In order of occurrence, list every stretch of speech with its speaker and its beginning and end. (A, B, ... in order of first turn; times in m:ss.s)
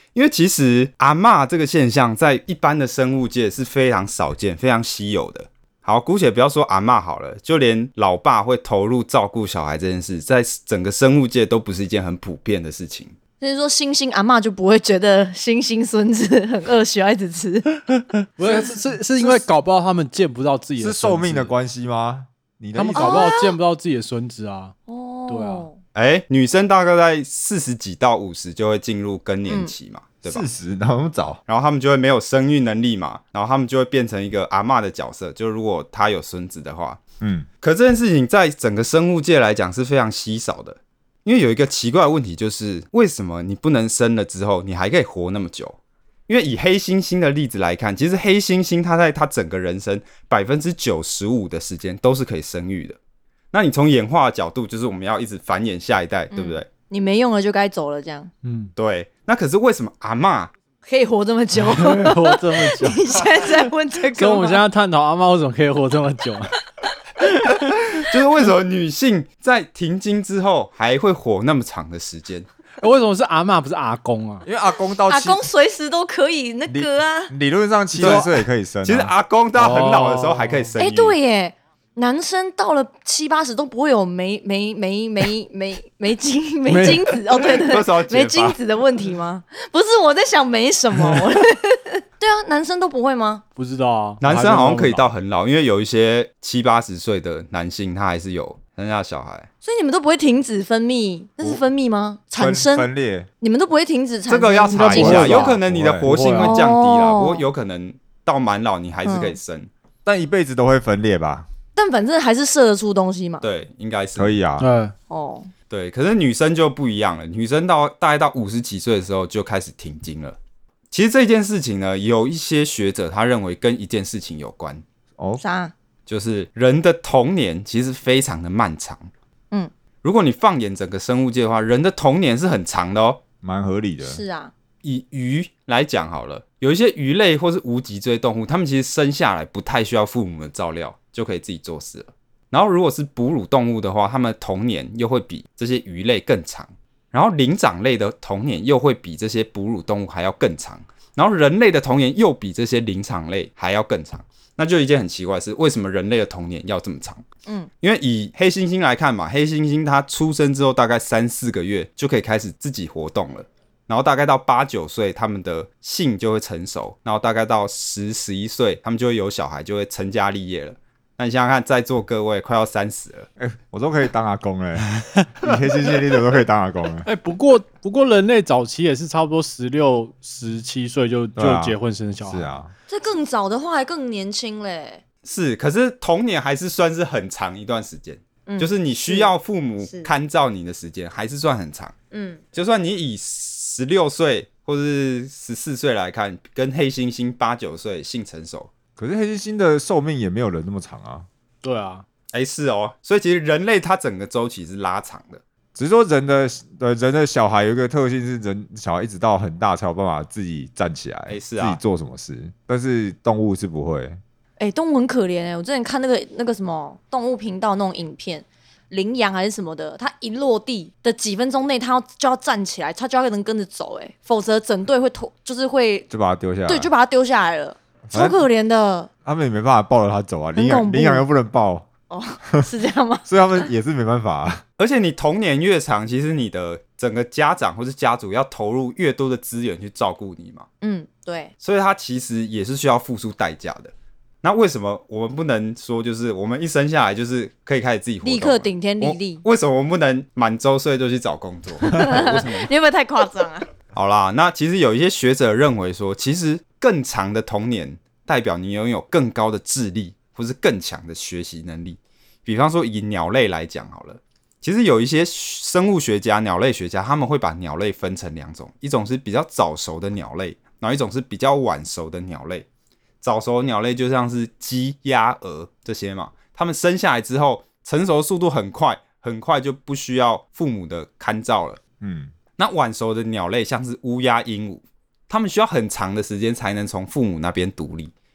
0:00.1-0:13.2 A
0:13.4-0:17.6 B
0:17.9-0:21.5 C
0:20.8-0:23.3 D
0:22.7-0:24.8 C
0:23.0-0:23.5 B
0:24.9-0:25.8 B
0:25.3-0:25.7 C
0:25.9-0:30.4 A
0:29.4-0:29.7 B
0:30.2-0:31.4 D
0:31.5-0:37.0 A
0:37.2-0:37.5 D
0:37.6-0:45.8 A
0:46.3-0:53.0 A
0:53.5-0:56.7 A
0:56.3-0:58.3 B
0:58.4-0:58.7 C
0:58.8-1:00.5 A
1:00.8-1:04.6 B
1:01.6-1:03.5 C
1:04.2-1:06.6 C
1:07.2-1:07.9 C
1:07.9-1:12.4 A
1:12.8-1:14.5 C
1:14.4-1:15.5 D
1:15.1-1:17.3 B
1:16.7-1:19.1 D
1:18.0-1:21.2 A
1:19.5-1:20.7 C
1:20.8-1:33.4 B
1:26.7-1:27.2 C
1:27.4-1:28.6 A
1:33.6-1:35.1 C
1:34.2-1:39.5 A
1:39.6-1:42.9 B
1:42.4-1:43.3 D
1:43.4-1:45.3 B
1:44.3-1:49.7 A
1:44.7-1:46.6 C
1:44.9-1:46.1 D
1:46.4-1:47.4 B
1:49.0-1:49.4 B
1:50.0-1:51.5 D
1:51.7-1:53.4 B
1:53.4-1:54.4 A
1:54.2-1:54.7 D
1:54.6-1:54.9 C
1:55.1-1:55.5 B
1:55.7-2:00.4 A
2:00.9-2:04.8 A
2:05.4-2:05.7 B
2:06.1-2:09.1 A
2:10.0-2:13.2 A
2:13.4-2:14.2 D
2:14.0-2:14.5 B
2:14.8-2:37.2 A
2:37.8-2:53.3 A
2:53.4-2:57.1 D
2:57.0-3:02.5 C
3:01.4-3:02.7 D
3:02.9-3:05.0 B
3:05.2-3:11.9 A
3:08.4-3:09.3 B
3:09.8-3:10.1 B
3:12.1-3:12.4 B
3:12.5-3:18.7 A
3:19.0-3:21.3 D
3:21.6-3:22.0 C
3:22.3-3:25.4 A
3:25.7-3:34.2 D
3:31.3-3:31.8 A
3:34.6-3:46.1 B
3:46.1-3:46.9 D
3:46.7-3:49.1 B
3:48.1-3:48.4 D
3:49.2-3:51.9 D
3:50.5-3:51.2 B
3:52.1-3:53.6 B
3:53.2-3:54.6 D
3:54.8-4:00.6 A
4:00.8-4:01.5 B
4:01.6-4:03.9 A
4:04.4-4:12.7 A
4:08.2-4:09.4 B
4:11.8-4:13.7 B
4:13.9-4:32.6 A
4:33.2-4:41.8 A
4:42.0-4:42.3 D
4:42.6-4:48.1 A